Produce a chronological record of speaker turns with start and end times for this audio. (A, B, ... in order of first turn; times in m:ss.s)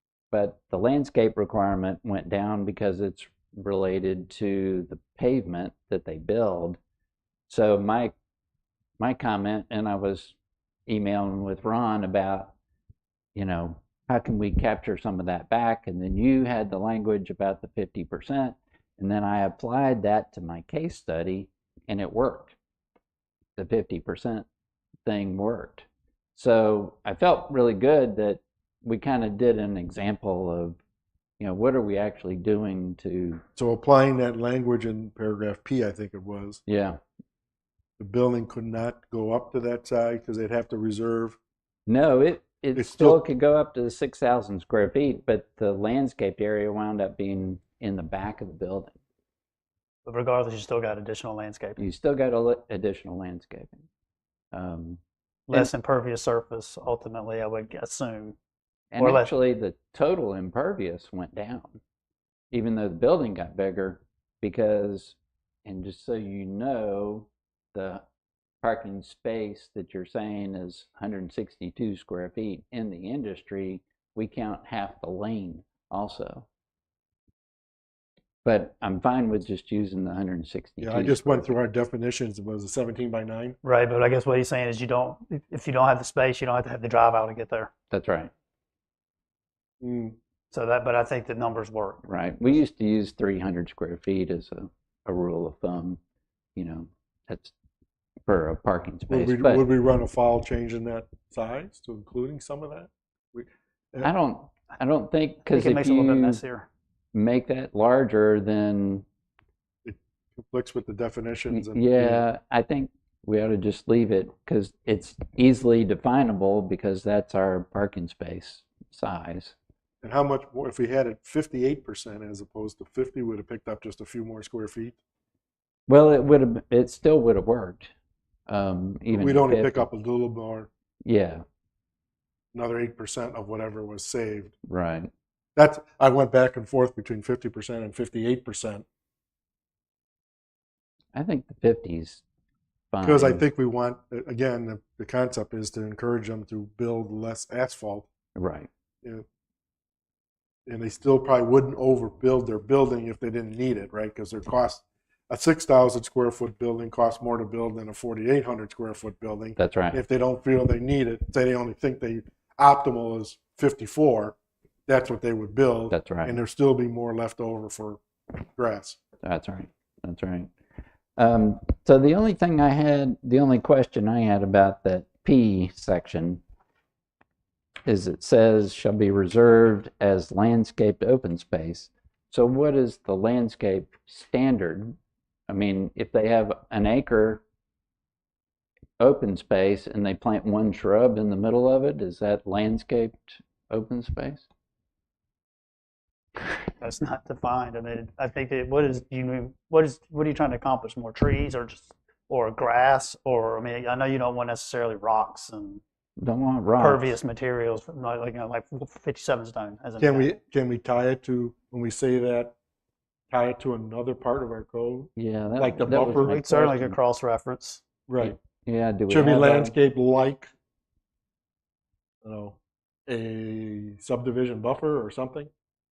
0:00.3-0:06.8 A
0:07.5-0:08.1 A
0:09.0-0:10.4 A
0:10.9-0:12.5 A
0:13.4-0:22.6 A
0:23.6-0:24.4 A
0:25.0-0:30.8 A
0:31.4-0:33.4 A
0:33.6-0:36.6 B
0:36.7-0:37.0 A
0:38.0-0:41.4 B
0:41.9-0:49.0 A
0:42.8-0:43.2 B
0:50.0-0:51.8 C
0:51.8-0:53.9 A
0:54.5-0:55.0 A
0:55.5-0:58.4 C
0:58.9-1:01.8 A
0:59.0-0:59.3 C
1:02.5-1:08.0 A
1:08.6-1:16.5 A
1:18.4-1:21.5 A
1:20.8-1:23.6 B
1:23.6-1:27.7 C
1:27.9-1:28.3 A
1:29.8-1:30.2 B
1:30.5-1:32.0 C
1:32.0-1:36.0 A
1:36.6-1:37.5 A
1:38.3-1:39.7 A
1:39.1-1:44.1 B
1:44.0-1:46.4 A
1:45.5-1:46.7 C
1:47.1-1:49.0 A
1:49.8-1:52.2 B
1:51.5-1:59.6 A
2:00.0-2:05.0 B
2:05.9-2:07.9 A
2:08.5-2:09.9 A
2:09.1-2:10.7 B
2:11.0-2:11.4 A
2:12.5-2:14.5 B
2:14.7-2:15.1 A
2:15.6-2:18.8 B
2:21.1-2:22.2 A
2:22.9-2:23.4 A
2:23.0-2:28.1 B
2:28.4-2:28.7 A
2:30.7-2:44.4 B
2:39.6-2:40.0 A
2:44.9-2:49.0 B
2:45.9-2:46.4 A
2:49.2-2:50.5 A
2:51.2-2:56.4 A
2:57.9-3:05.0 A
3:05.5-3:07.4 A
3:09.0-3:14.5 A
3:16.8-3:25.8 C
3:26.2-3:27.2 A
3:26.8-3:30.3 C
3:30.0-3:32.5 B
3:33.3-3:36.4 B
3:35.2-3:37.0 A
3:36.1-3:37.8 C
3:38.1-3:38.4 B
3:38.2-3:39.8 A
3:39.1-3:40.5 B
3:42.2-3:45.5 B